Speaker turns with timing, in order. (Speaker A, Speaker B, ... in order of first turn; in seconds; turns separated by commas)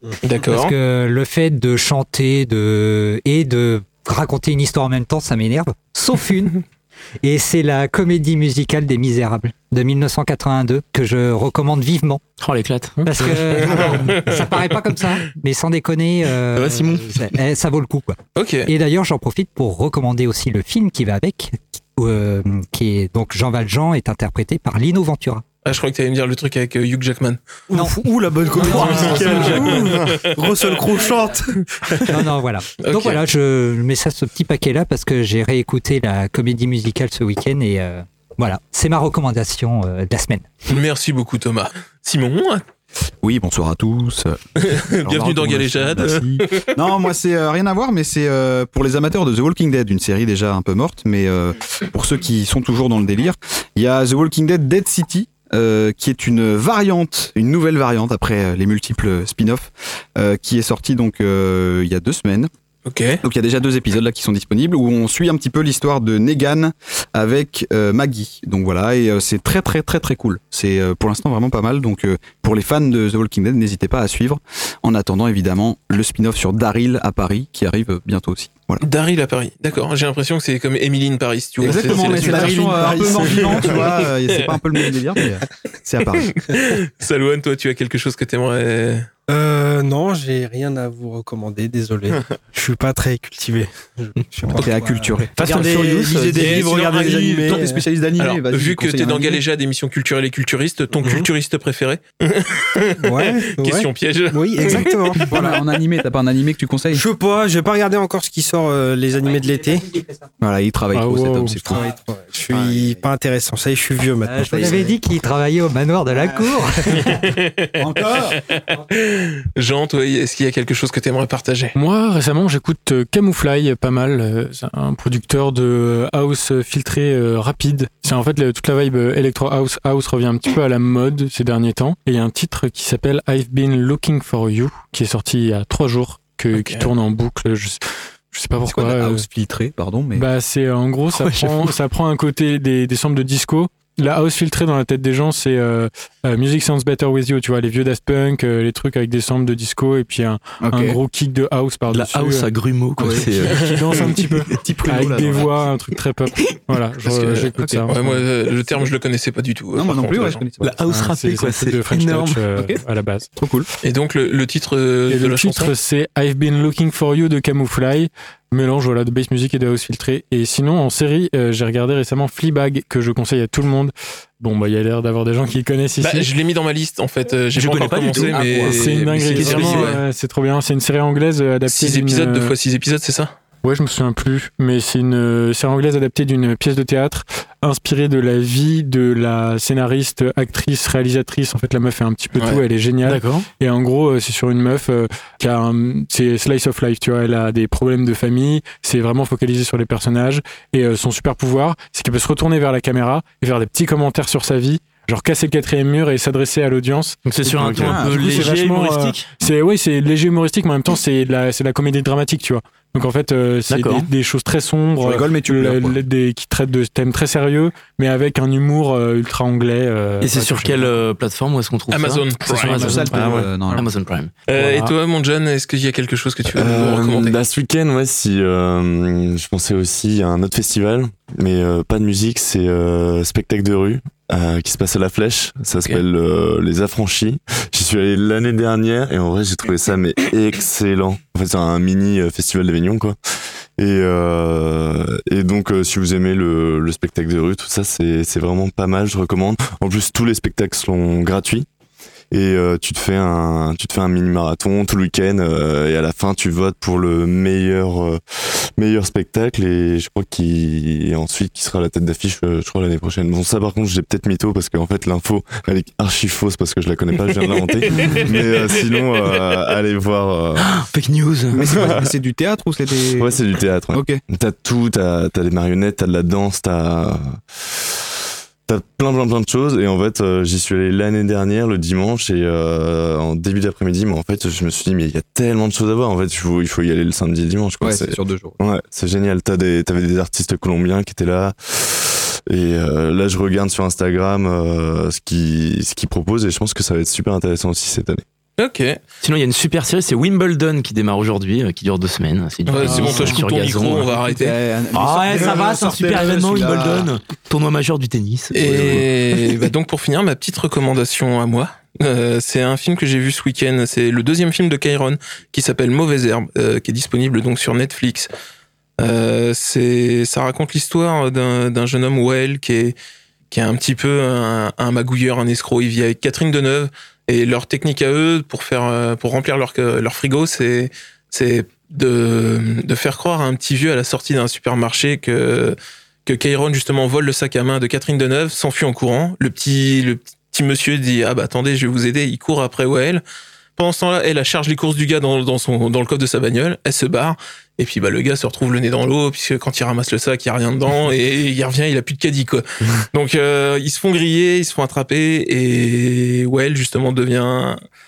Speaker A: 0.2-0.7, Speaker B: 0.4-6.6, Speaker B: 7.2-12.2, Speaker C: 12.4-13.3, Speaker B: 13.1-25.4, Speaker D: 13.1-13.3, Speaker A: 13.6-14.8, Speaker A: 18.4-18.7, Speaker A: 25.6-27.4, Speaker E: 27.7-32.1, Speaker B: 27.7-29.9, Speaker A: 28.7-30.2, Speaker B: 32.1-40.5, Speaker A: 32.8-33.3, Speaker A: 40.7-42.6, Speaker F: 43.2-62.5, Speaker A: 44.6-46.7, Speaker A: 62.9-63.2, Speaker F: 63.2-78.8, Speaker A: 78.8-85.0, Speaker F: 81.6-86.4, Speaker E: 81.7-83.9, Speaker A: 86.3-89.1, Speaker E: 89.3-97.8, Speaker F: 94.5-99.4, Speaker B: 94.6-95.1, Speaker C: 95.4-96.5, Speaker A: 96.4-97.2, Speaker A: 98.2-105.3, Speaker E: 101.0-101.3, Speaker E: 103.0-105.6, Speaker F: 105.3-107.0, Speaker E: 106.9-109.9, Speaker B: 109.2-110.3, Speaker F: 110.4-111.9, Speaker D: 110.9-111.7, Speaker E: 111.7-114.9, Speaker F: 112.5-113.0, Speaker B: 114.2-117.2, Speaker F: 114.5-114.9, Speaker F: 116.1-116.5, Speaker A: 117.2-121.8, Speaker F: 117.8-118.4, Speaker D: 121.8-139.2, Speaker A: 136.5-136.9, Speaker F: 138.7-140.3, Speaker D: 140.2-152.5, Speaker F: 150.6-151.0, Speaker C: 151.9-153.7, Speaker D: 153.0-158.2, Speaker F: 153.0-155.7, Speaker A: 153.5-154.1, Speaker A: 157.0-160.4, Speaker F: 157.6-157.9, Speaker F: 159.8-160.7, Speaker C: 160.6-162.4, Speaker D: 160.8-163.3, Speaker F: 163.4-163.7, Speaker A: 163.8-165.7, Speaker D: 165.1-176.3, Speaker A: 176.0-180.0, Speaker C: 177.6-179.9, Speaker F: 178.2-178.9, Speaker D: 178.7-182.5, Speaker F: 179.5-179.9, Speaker A: 181.7-183.3, Speaker D: 183.6-220.9, Speaker A: 192.3-192.6, Speaker C: 193.1-193.5, Speaker C: 207.2-209.3, Speaker F: 207.6-208.6, Speaker C: 213.7-214.1, Speaker F: 215.0-216.0, Speaker C: 220.2-224.9, Speaker A: 221.9-223.2, Speaker D: 222.4-223.4, Speaker F: 222.8-223.9, Speaker A: 224.5-227.4, Speaker G: 226.5-243.2, Speaker G: 243.8-251.7, Speaker G: 252.3-270.7, Speaker A: 267.9-268.8, Speaker C: 270.6-271.7, Speaker F: 271.6-273.4, Speaker G: 271.7-272.1, Speaker G: 273.2-277.9, Speaker F: 273.9-274.2, Speaker G: 278.7-298.2, Speaker F: 287.8-288.6, Speaker A: 298.6-299.0, Speaker C: 299.2-304.1, Speaker A: 302.7-304.6, Speaker F: 302.8-303.4, Speaker F: 304.2-307.1, Speaker C: 304.9-309.1, Speaker A: 308.5-318.3, Speaker A: 319.0-323.0, Speaker A: 323.5-343.2, Speaker A: 343.8-357.8